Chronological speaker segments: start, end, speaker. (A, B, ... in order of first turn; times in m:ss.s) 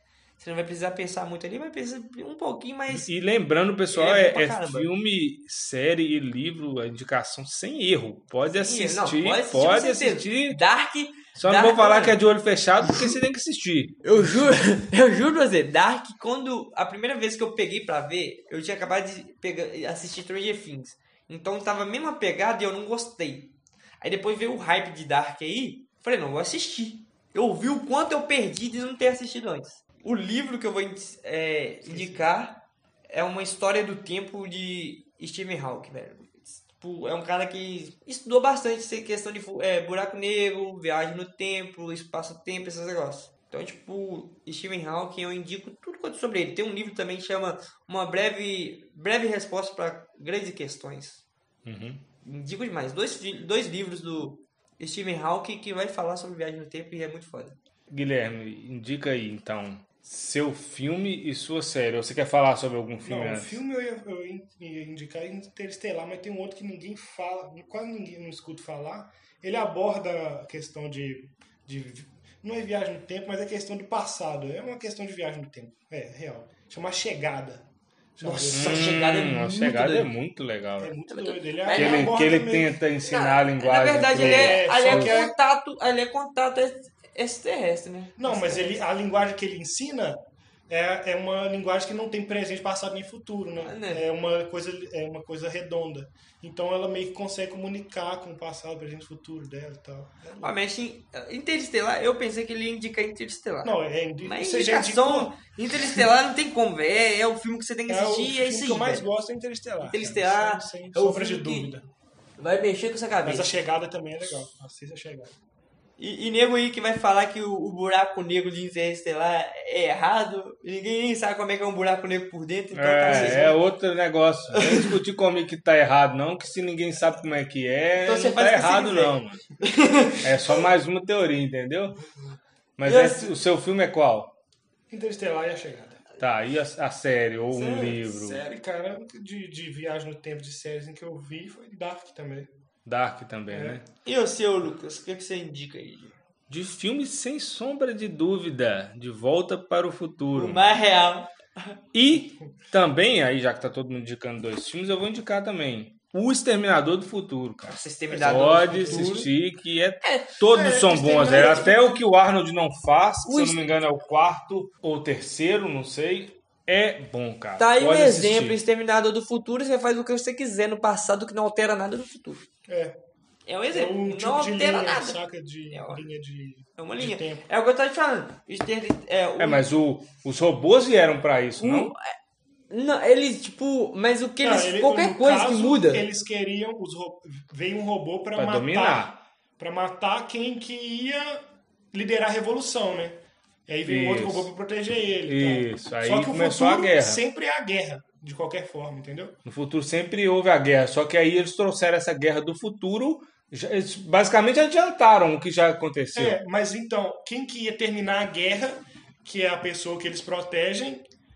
0:00.4-0:03.1 A
0:02.9-0:10.6 B
0:03.9-0:04.9 A
0:08.5-0:12.2 A
0:11.3-0:14.0 B
0:12.8-0:13.1 A
0:14.0-0:51.2 A
0:31.8-0:32.3 C
0:51.6-0:52.0 B
0:52.2-0:57.6 A
0:57.9-1:03.6 B
1:03.0-1:19.0 C
1:18.2-1:20.1 A
1:18.5-1:20.9 B
1:20.8-1:22.8 C
1:21.1-1:22.1 A
1:21.7-1:25.3 B
1:23.0-1:28.8 A
1:24.0-1:25.3 C
1:28.2-1:30.2 C
1:30.7-1:40.6 C
1:33.6-1:34.0 A
1:40.4-1:49.1 A
1:43.6-1:46.0 C
1:47.9-1:51.8 C
1:49.8-1:51.7 A
1:52.4-1:53.5 A
1:53.2-1:55.3 C
1:56.0-2:03.6 A
2:02.7-2:09.4 B
2:03.1-2:03.4 C
2:04.6-2:04.9 A
2:08.0-2:10.6 A
2:10.2-2:12.0 B
2:12.8-2:14.3 B
2:12.8-2:13.3 A
2:14.9-2:16.0 C
2:16.2-2:18.4 B
2:17.5-2:17.8 A
2:17.7-2:22.5 C
2:22.8-2:23.8 B
2:23.5-2:23.8 C
2:24.0-2:26.2 A
2:26.5-2:30.7 B
2:30.3-2:31.8 A
2:31.9-2:48.6 B
2:37.7-2:39.3 A
2:38.1-2:39.2 C
2:40.0-2:40.4 A
2:40.5-2:41.7 C
2:40.9-2:41.8 A
2:43.2-2:43.6 A
2:47.6-2:52.4 A
2:52.7-2:53.0 C
2:53.4-2:55.2 A
2:53.7-2:57.5 C
2:55.7-2:56.0 A
2:56.8-2:59.6 A
2:59.4-3:01.9 B
3:01.6-3:02.1 A
3:02.7-3:06.0 A
3:04.4-3:19.4 C
3:08.4-3:09.1 B
3:13.8-3:14.5 B
3:15.2-3:17.2 B
3:19.4-3:26.4 B
3:26.1-3:31.0 C